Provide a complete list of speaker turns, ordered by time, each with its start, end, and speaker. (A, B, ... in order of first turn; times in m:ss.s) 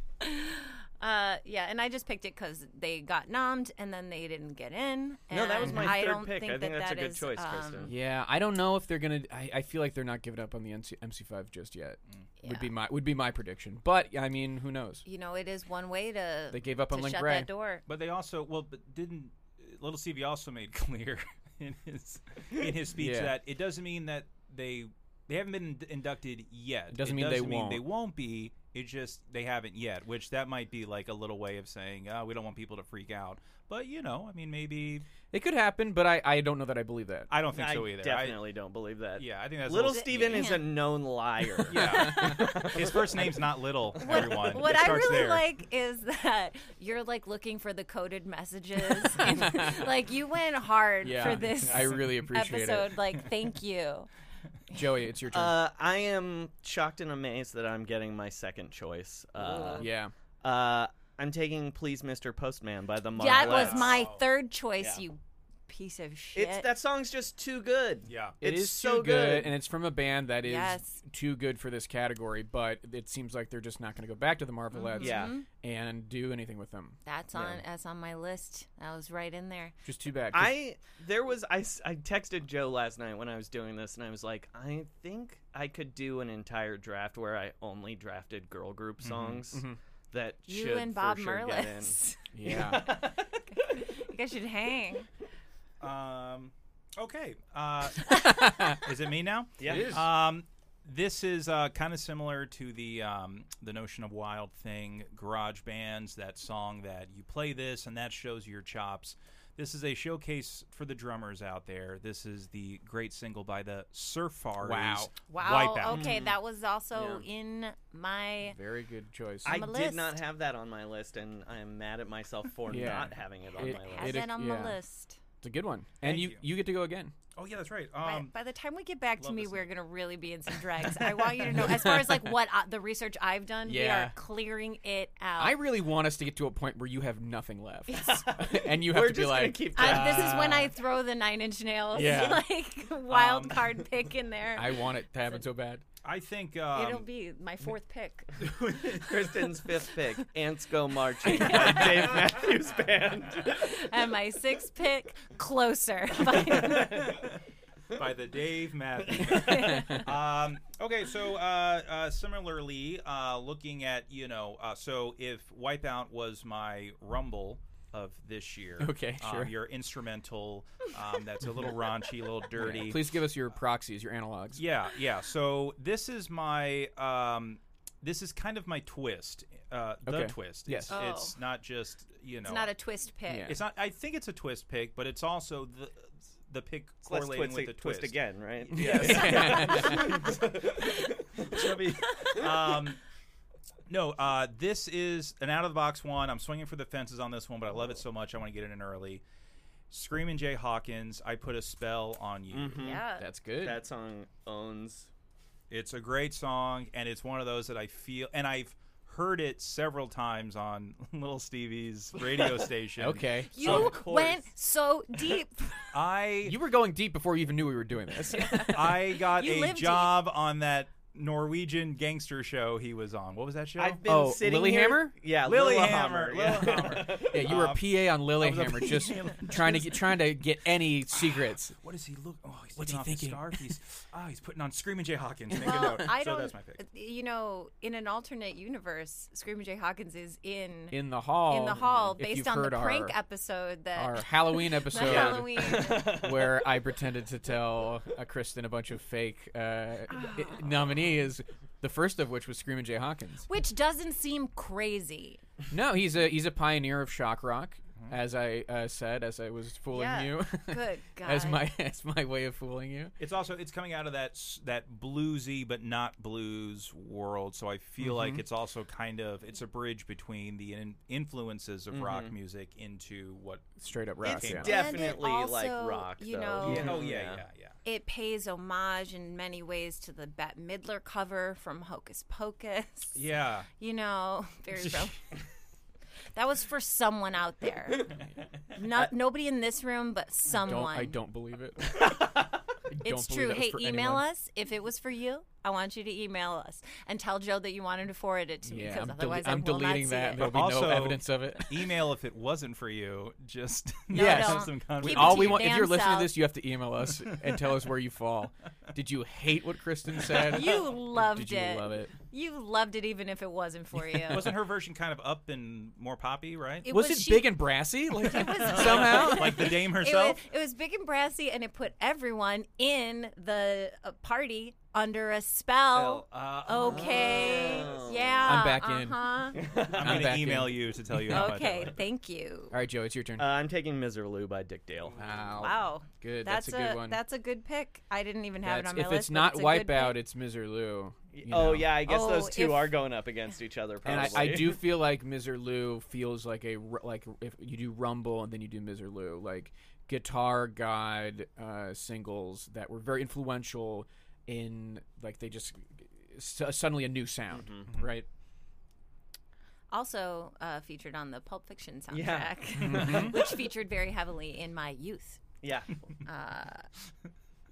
0:00.2-0:07.9 A
0:05.3-0:07.9 B
0:05.6-0:05.9 C
0:07.9-0:15.0 C
0:12.4-0:12.7 A
0:15.0-0:17.8 A
0:16.5-0:17.5 C
0:17.9-0:35.1 D
0:22.9-0:23.4 C
0:26.9-0:27.8 C
0:35.3-0:37.3 C
0:37.3-0:38.5 D
0:37.5-0:43.4 B
0:39.2-0:40.5 D
0:39.9-0:40.7 A
0:41.7-0:45.4 D
0:41.7-0:42.3 C
0:41.8-0:42.7 A
0:44.0-0:44.4 B
0:44.0-0:54.1 A
0:49.2-0:49.8 C
0:51.0-0:53.0 C
0:54.7-0:55.6 C
0:55.3-0:59.9 B
0:59.7-1:00.1 C
1:00.4-1:04.1 B
1:03.2-1:06.7 A
1:03.3-1:04.2 D
1:06.4-1:09.5 B
1:08.1-1:08.4 D
1:08.4-1:17.0 C
1:10.4-1:11.0 A
1:14.7-1:15.5 A
1:15.0-1:15.3 B
1:17.0-1:19.7 A
1:17.3-1:17.6 B
1:19.8-1:20.6 C
1:20.3-1:33.2 B
1:29.0-1:29.4 D
1:29.5-1:29.8 C
1:30.5-1:32.2 A
1:32.3-1:33.0 C
1:33.5-1:35.1 A
1:35.8-1:56.2 D
1:38.1-1:38.8 C
1:39.6-1:40.0 B
1:39.6-1:40.1 C
1:54.6-1:55.1 C
1:55.3-1:58.6 A
1:55.9-1:56.4 B
1:56.9-1:57.3 B
1:58.4-1:59.6 C
1:59.4-2:04.3 B
1:59.5-2:00.2 A
2:02.7-2:04.8 C
2:03.5-2:05.2 A
2:05.4-2:07.1 C
2:06.0-2:06.4 D
2:07.4-2:08.3 D
2:08.0-2:15.6 A
2:09.2-2:09.7 D
2:11.5-2:12.4 C
2:13.7-2:14.2 C
2:15.4-2:20.3 C
2:17.9-2:18.2 A
2:17.9-2:20.5 B
2:19.7-2:25.4 A
2:19.8-2:20.7 D
2:21.9-2:22.4 C
2:23.1-2:23.8 D
2:24.6-2:25.8 C
2:26.0-2:27.1 D
2:26.7-2:28.5 A
2:28.4-2:29.5 D
2:28.8-2:33.8 B
2:31.2-2:32.3 A
2:33.4-2:37.2 A
2:36.5-2:37.4 D
2:37.9-2:53.1 D
2:39.2-2:40.0 A
2:39.5-2:40.0 C
2:48.8-2:49.6 C
2:52.6-2:54.6 C
2:54.6-3:02.7 D
3:00.1-3:01.0 C
3:00.9-3:01.4 A
3:02.4-3:03.6 A
3:03.3-3:03.6 C
3:03.5-3:10.7 D
3:07.1-3:12.5 B
3:08.7-3:10.2 C
3:09.8-3:10.0 A
3:11.4-3:13.0 D
3:13.9-3:19.2 D
3:19.9-3:22.9 D
3:22.5-3:23.0 B
3:22.8-3:23.3 A
3:23.2-3:23.8 C
3:23.6-3:25.1 B
3:25.7-3:33.9 D
3:33.0-3:33.9 C
3:33.5-3:35.9 A
3:33.6-3:34.5 B
3:35.9-3:36.6 D
3:36.4-3:39.0 C
3:38.4-3:40.2 A
3:38.7-3:44.0 D
3:43.8-3:47.5 B
3:44.0-3:45.2 C
3:45.4-3:50.1 D
3:47.2-3:51.8 C
3:51.1-3:56.8 D
3:52.8-3:53.8 C
3:55.5-4:06.2 A
4:00.9-4:03.2 C
4:04.0-4:13.5 C
4:05.0-4:06.7 B
4:10.1-4:10.6 A
4:13.5-4:15.4 A
4:15.7-4:23.1 C
4:19.9-4:21.6 A
4:23.2-4:34.9 D
4:28.0-4:28.4 C
4:31.9-4:32.3 B
4:33.8-4:34.7 C
4:34.2-4:37.4 B
4:34.6-4:37.0 A
4:36.6-4:37.8 D
4:37.8-4:43.2 A
4:43.2-4:43.7 D
4:43.8-4:45.2 A
4:46.4-4:48.2 A
4:48.8-4:51.2 A
4:50.5-4:52.1 C
4:52.9-4:54.2 C
4:53.0-5:00.6 A
4:58.7-5:02.0 C
5:00.4-5:05.7 D
5:04.1-5:06.4 A
5:04.1-5:12.1 C
5:10.4-5:14.5 A
5:14.3-5:16.9 D
5:16.8-5:17.6 A
5:16.9-5:19.8 C
5:18.2-5:29.6 A
5:18.6-5:20.4 D
5:26.0-5:28.1 D
5:26.7-5:28.6 B
5:28.4-5:31.5 C
5:29.6-5:30.3 B
5:29.8-5:32.0 D
5:31.3-5:32.8 A
5:32.7-5:33.5 C
5:33.4-5:35.2 B
5:35.2-5:37.2 C
5:35.6-5:40.2 A
5:38.6-5:42.1 C
5:41.3-5:44.8 B
5:42.0-5:43.1 A
5:44.0-5:58.3 C
5:57.5-5:57.9 B
5:59.9-6:05.4 A
6:02.1-6:03.6 B
6:02.8-6:03.4 C
6:05.6-6:06.0 B
6:06.2-6:06.9 A